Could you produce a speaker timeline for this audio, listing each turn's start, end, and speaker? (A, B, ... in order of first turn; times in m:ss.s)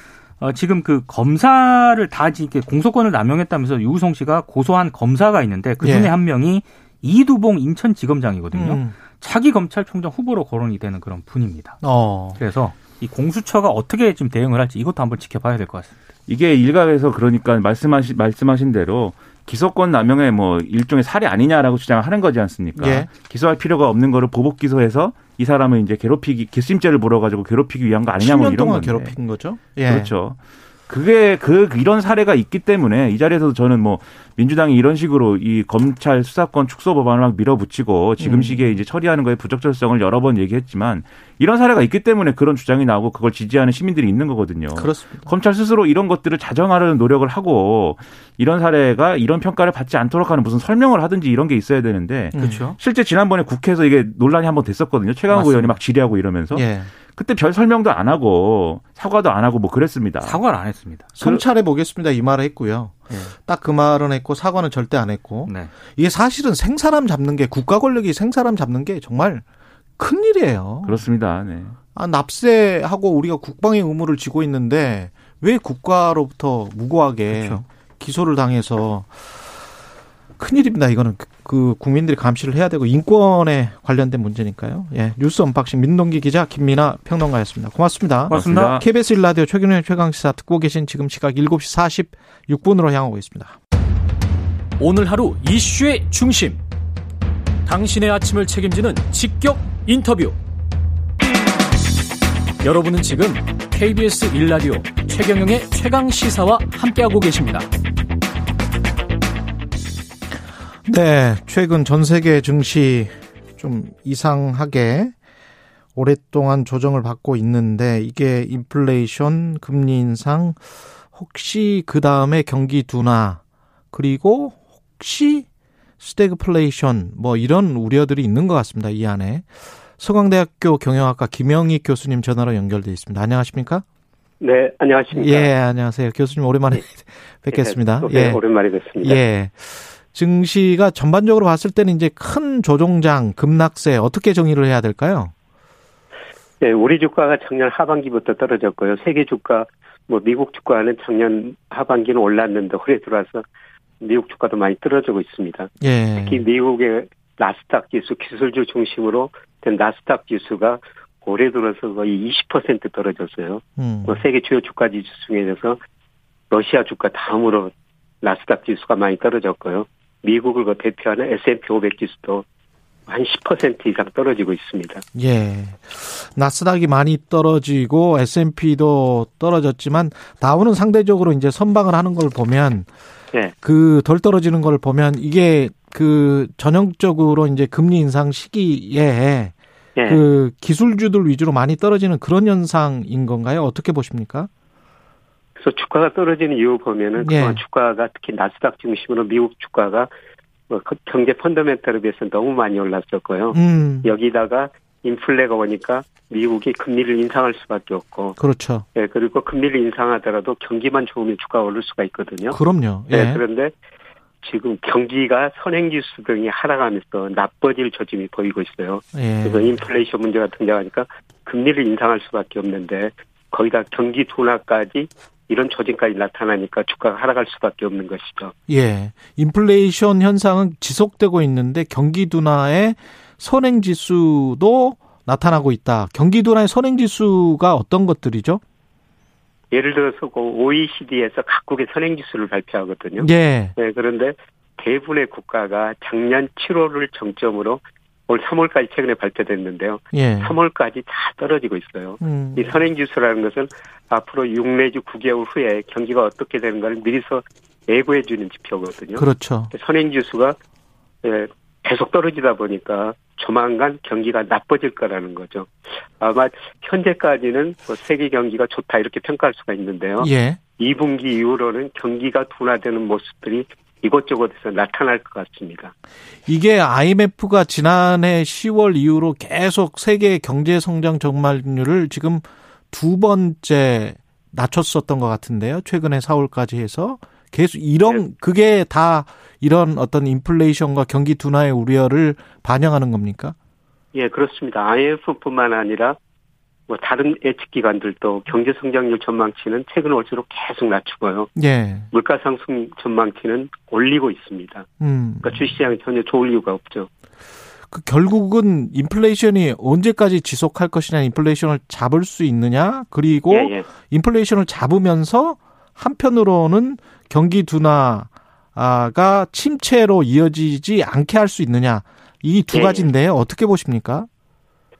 0:00.4-0:11.8 A
0:05.8-0:06.1 B
0:08.5-0:08.9 B
0:11.8-0:12.4 B
0:12.4-0:15.9 A
0:16.3-0:29.1 C
0:22.8-0:23.1 B
0:28.2-0:30.1 B
0:29.8-1:00.4 C
0:38.2-0:38.8 B
0:44.8-0:45.3 B
0:52.3-0:52.7 B
0:52.4-0:52.8 A
0:55.3-0:55.8 A
0:56.5-0:56.9 B
1:00.2-1:01.1 A
1:01.2-1:09.4 B
1:05.4-1:05.7 A
1:10.0-1:11.0 B
1:10.8-1:11.8 C
1:11.9-1:19.5 B
1:17.3-1:17.6 A
1:20.4-1:33.6 B
1:28.3-1:28.8 A
1:28.3-1:28.8 C
1:34.8-1:36.6 D
1:37.6-1:40.4 D
1:42.6-1:47.7 D
1:50.8-1:55.1 B
1:55.9-2:03.4 B
2:03.9-2:05.4 B
2:06.0-2:13.8 B
2:14.4-2:15.5 E
2:15.1-2:18.4 B
2:17.5-2:19.2 E
2:19.0-2:25.3 B
2:26.6-2:33.4 E
2:34.0-2:45.8 E
2:35.8-2:36.4 B
2:43.8-2:44.2 B
2:46.5-2:52.4 E
2:53.1-2:55.0 E
2:55.1-3:02.9 B
3:03.6-3:09.5 B
3:10.0-3:10.2 E
3:10.0-3:14.5 B
3:15.6-3:20.1 E
3:17.2-3:17.6 B
3:20.7-3:28.4 E
3:23.5-3:24.1 B
3:28.4-3:28.8 B
3:28.9-3:32.6 E
3:32.5-3:33.4 B
3:33.1-3:33.7 E
3:34.4-3:48.5 E
3:39.1-3:39.8 B
3:48.7-3:58.6 B
3:59.7-4:20.6 E
4:03.2-4:03.7 B
4:10.1-4:10.5 B
4:12.2-4:12.8 B
4:19.1-4:19.7 B
4:21.2-4:35.9 E
4:30.2-4:30.6 B
4:36.5-4:53.6 B
4:54.1-4:56.2 E
4:56.9-5:01.5 E
5:01.6-5:02.1 B
5:02.1-5:04.9 E
5:05.0-5:05.7 B
5:05.4-5:07.1 E
5:07.9-5:24.3 B
5:13.5-5:13.9 E
5:22.7-5:23.1 E